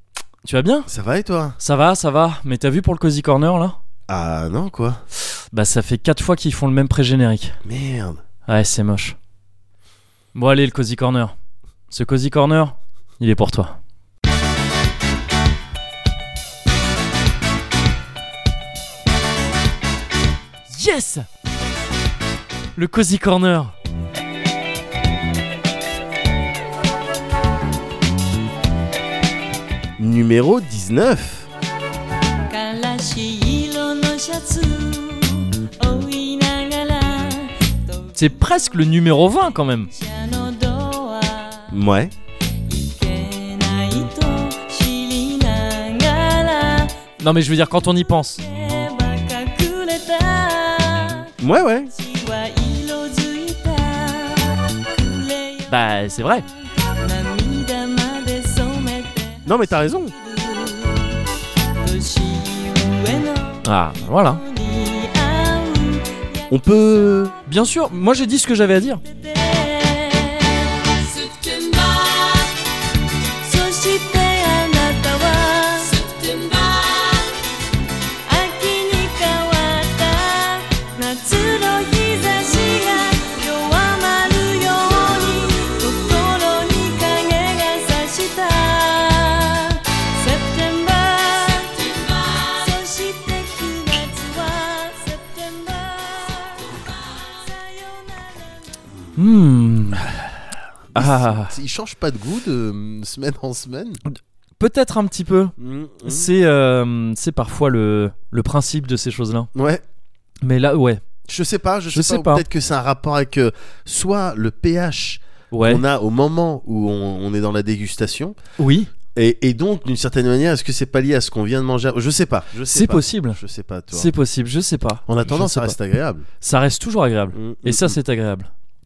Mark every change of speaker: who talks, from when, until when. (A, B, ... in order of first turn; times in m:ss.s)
0:00.4-0:00.9 A
0:00.9-0:01.6 B
0:01.6-0:03.8 A
0:04.1-0:05.0 B
0:05.5-0:07.6 A
0:07.6-0:08.2 B
0:08.5-0:09.2 A
0:10.3-0:11.3 A
0:11.9-0:13.8 A
0:20.7-0:21.3 A
0:22.8-0:23.7 A
0:30.0-0:31.5 B
0:32.5-0:38.4 C
0:38.2-0:39.9 A
0:39.9-0:41.8 C
0:41.7-0:42.1 B
0:42.6-0:47.0 C
0:47.2-0:48.4 A
0:48.4-0:51.3 C
0:51.4-0:51.9 B
0:51.9-1:01.2 C
0:55.7-0:56.4 A
0:59.4-1:00.1 B
1:01.8-1:06.5 C
1:03.6-1:04.4 A
1:06.5-1:07.3 B
1:07.4-1:09.0 A
1:09.0-1:12.6 C
1:13.4-1:17.3 C
1:18.2-1:38.4 C
1:39.2-1:40.1 A
1:40.9-1:44.0 B
1:40.9-1:41.5 A
1:44.1-1:45.5 A
1:45.6-1:46.3 B
1:46.0-1:49.5 A
1:49.5-1:49.8 B
1:50.4-1:51.0 A
1:51.3-1:58.4 B
1:51.9-1:52.4 A
1:55.5-1:55.8 A
1:58.6-1:58.9 A
1:59.1-2:04.1 B
2:02.7-2:03.4 A
2:03.9-2:05.8 A
2:05.1-2:06.2 B
2:06.4-2:08.5 A
2:07.3-2:08.0 B